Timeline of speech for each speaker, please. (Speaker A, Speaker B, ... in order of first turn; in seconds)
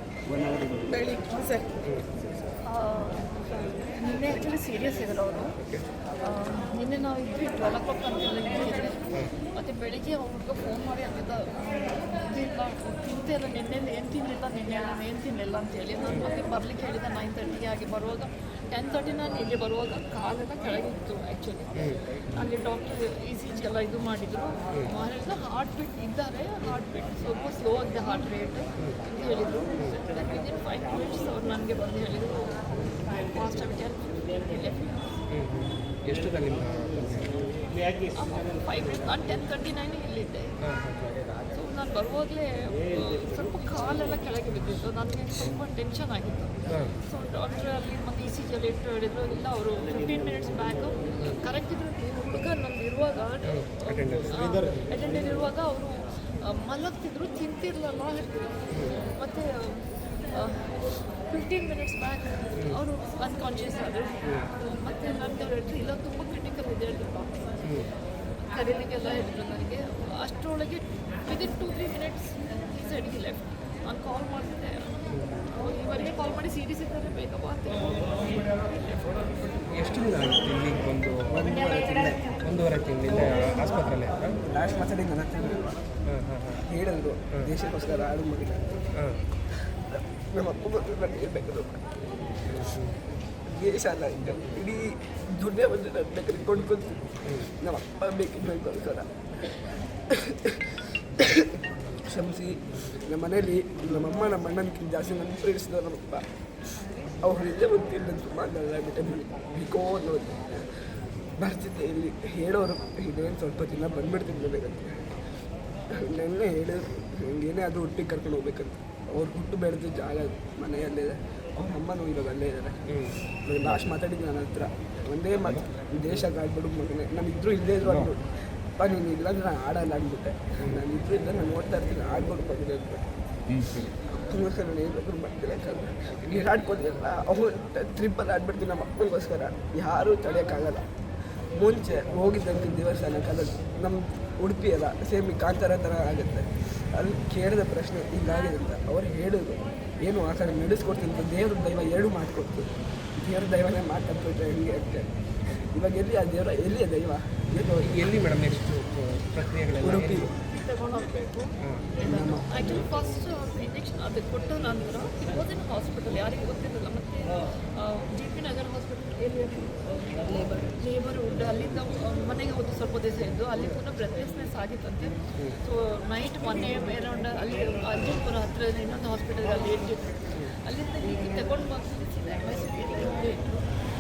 Speaker A: 0.3-0.8, 81.3-82.3, 84.5-85.8, 86.6-88.7, 89.9-91.9, 93.5-99.1, 100.1-106.2, 107.1-110.7, 111.4-115.2, 115.9-133.1, 133.8-140.9, 141.5-158.0, 159.8-160.3, 162.0-162.6
Speaker B: 0.9-1.7, 2.6-5.6, 6.2-35.2, 38.0-40.6, 41.4-67.5, 68.4-79.6, 160.3-183.7
Speaker C: 5.6-5.9, 35.3-37.5, 40.6-41.1, 53.5-54.3, 58.7-59.0, 75.1-75.5, 79.7-81.5, 82.4-84.4, 86.1-86.7, 92.7-93.0, 122.9-123.2, 133.6-133.9, 157.8-160.3, 161.6-161.9